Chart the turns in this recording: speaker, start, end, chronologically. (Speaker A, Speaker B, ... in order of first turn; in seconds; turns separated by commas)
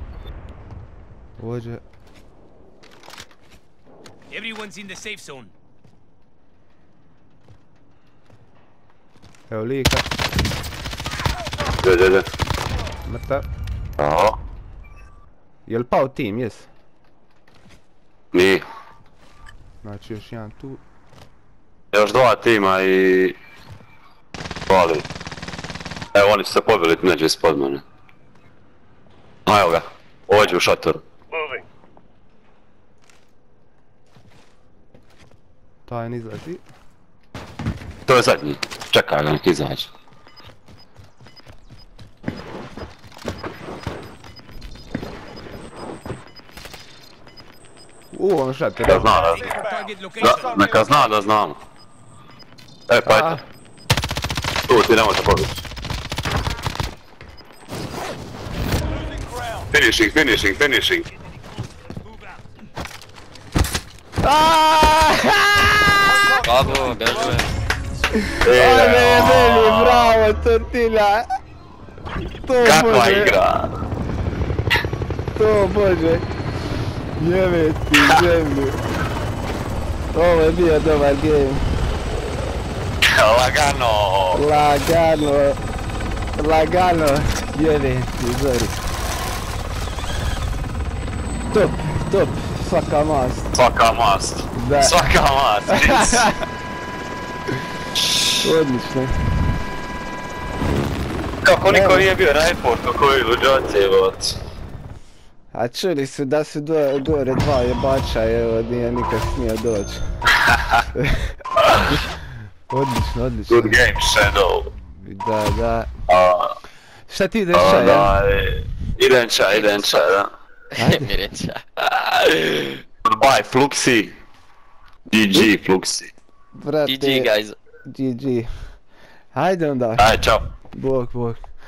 Speaker A: 1.4-1.8, Speaker B: 4.3-5.5, Speaker A: 9.5-10.1, Speaker C: 11.8-12.3, Speaker A: 13.1-13.4, Speaker C: 14.0-14.4, Speaker A: 15.7-16.7, Speaker C: 18.3-18.6, Speaker A: 19.8-20.8, Speaker C: 21.9-23.4, Speaker C: 24.7-25.1, Speaker C: 26.1-27.8, Speaker C: 29.5-31.0, Speaker D: 31.3-31.6, Speaker A: 35.9-36.6, Speaker C: 38.1-39.9, Speaker A: 48.1-49.2, Speaker C: 48.9-49.4, Speaker D: 48.9-51.1, Speaker B: 49.3-50.9, Speaker C: 50.2-51.6, Speaker C: 52.9-53.4, Speaker A: 53.0-53.4, Speaker C: 54.7-55.6, Speaker D: 58.8-59.7, Speaker C: 59.7-61.1, Speaker A: 64.2-65.8, Speaker D: 66.0-67.5, Speaker E: 66.4-67.5, Speaker A: 68.3-71.2, Speaker C: 68.4-70.2, Speaker A: 72.4-73.4, Speaker C: 72.6-73.7, Speaker A: 75.4-76.2, Speaker A: 77.2-78.8, Speaker A: 80.1-81.6, Speaker C: 83.1-84.4, Speaker A: 84.3-85.6, Speaker A: 86.4-88.8, Speaker A: 91.5-93.6, Speaker C: 93.5-96.3, Speaker A: 94.6-95.0, Speaker A: 95.7-96.4, Speaker C: 98.0-98.3, Speaker A: 98.4-99.5, Speaker C: 101.4-104.4, Speaker A: 101.7-102.1, Speaker A: 105.5-110.0, Speaker C: 110.4-110.8, Speaker A: 111.0-111.4, Speaker C: 111.6-112.0, Speaker A: 112.7-113.8, Speaker C: 113.5-114.7, Speaker A: 115.0-115.9, Speaker C: 116.1-116.6, Speaker A: 117.1-118.1, Speaker C: 117.5-120.3, Speaker E: 119.5-120.0, Speaker E: 120.8-121.6, Speaker A: 120.8-121.1, Speaker E: 122.4-122.7, Speaker C: 123.0-124.2, Speaker C: 125.1-126.1, Speaker A: 126.6-127.3, Speaker E: 126.8-127.6, Speaker A: 127.8-128.5, Speaker A: 129.3-130.1, Speaker C: 130.0-130.4, Speaker A: 130.7-131.4